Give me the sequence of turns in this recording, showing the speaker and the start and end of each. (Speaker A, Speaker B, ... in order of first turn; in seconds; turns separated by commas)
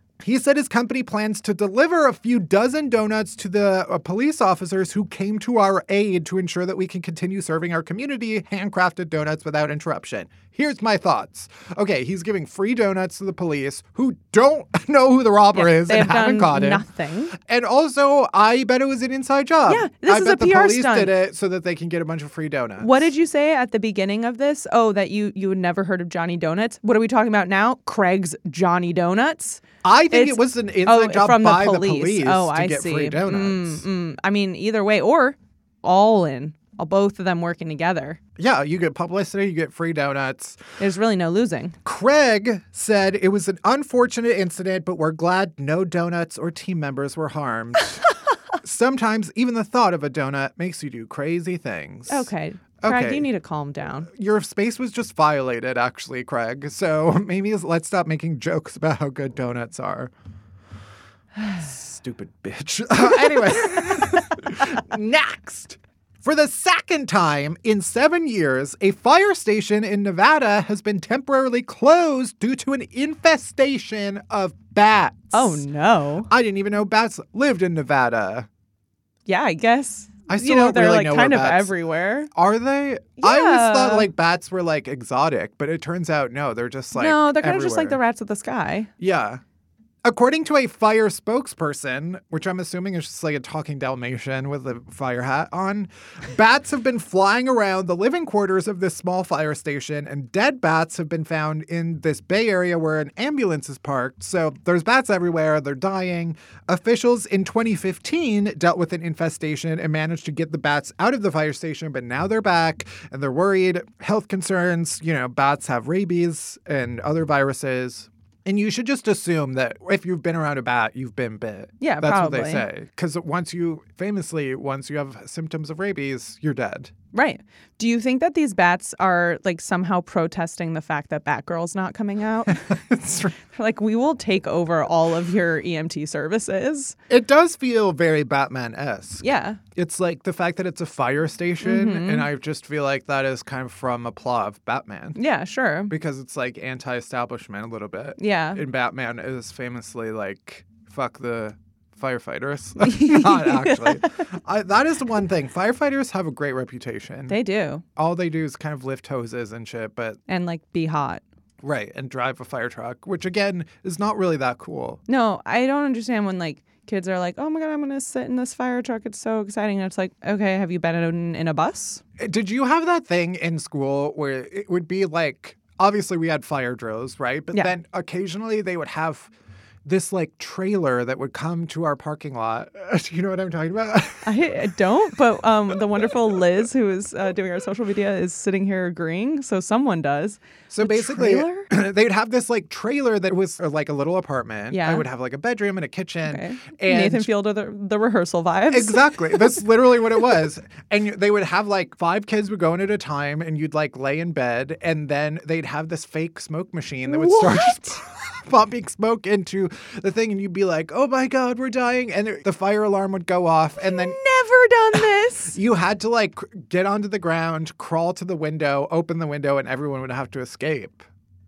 Speaker A: 0.2-23.1, Speaker B: 15.5-17.3, Speaker B: 19.7-21.1, Speaker B: 22.8-38.2, Speaker A: 29.8-33.8, Speaker A: 38.4-40.6, Speaker B: 40.8-41.8, Speaker A: 41.8-48.0, Speaker A: 48.6-52.3, Speaker B: 52.1-54.1, Speaker A: 52.8-53.3, Speaker A: 54.1-60.1, Speaker A: 61.5-75.6, Speaker B: 75.3-76.3, Speaker A: 76.3-78.5, Speaker B: 79.3-82.3, Speaker A: 80.3-81.7, Speaker A: 82.3-88.0, Speaker B: 83.2-84.1, Speaker B: 86.9-88.9, Speaker A: 89.0-89.4, Speaker A: 90.0-126.9, Speaker B: 121.8-122.7, Speaker B: 127.1-132.6, Speaker A: 132.5-133.3, Speaker B: 133.5-136.9, Speaker A: 137.1-145.2, Speaker B: 139.2-139.6, Speaker B: 141.6-142.3, Speaker B: 145.2-145.9, Speaker A: 145.9-157.4, Speaker B: 148.2-148.6, Speaker B: 152.8-154.1, Speaker B: 157.3-157.8, Speaker A: 157.9-160.2, Speaker B: 160.3-161.2, Speaker A: 161.6-165.0, Speaker B: 165.1-172.0, Speaker A: 172.2-179.3, Speaker A: 179.8-184.4, Speaker B: 184.2-191.7, Speaker A: 190.7-197.3, Speaker B: 194.7-195.1, Speaker B: 196.2-199.6, Speaker A: 198.7-214.2, Speaker B: 207.1-207.9, Speaker B: 213.8-215.6, Speaker A: 215.5-221.0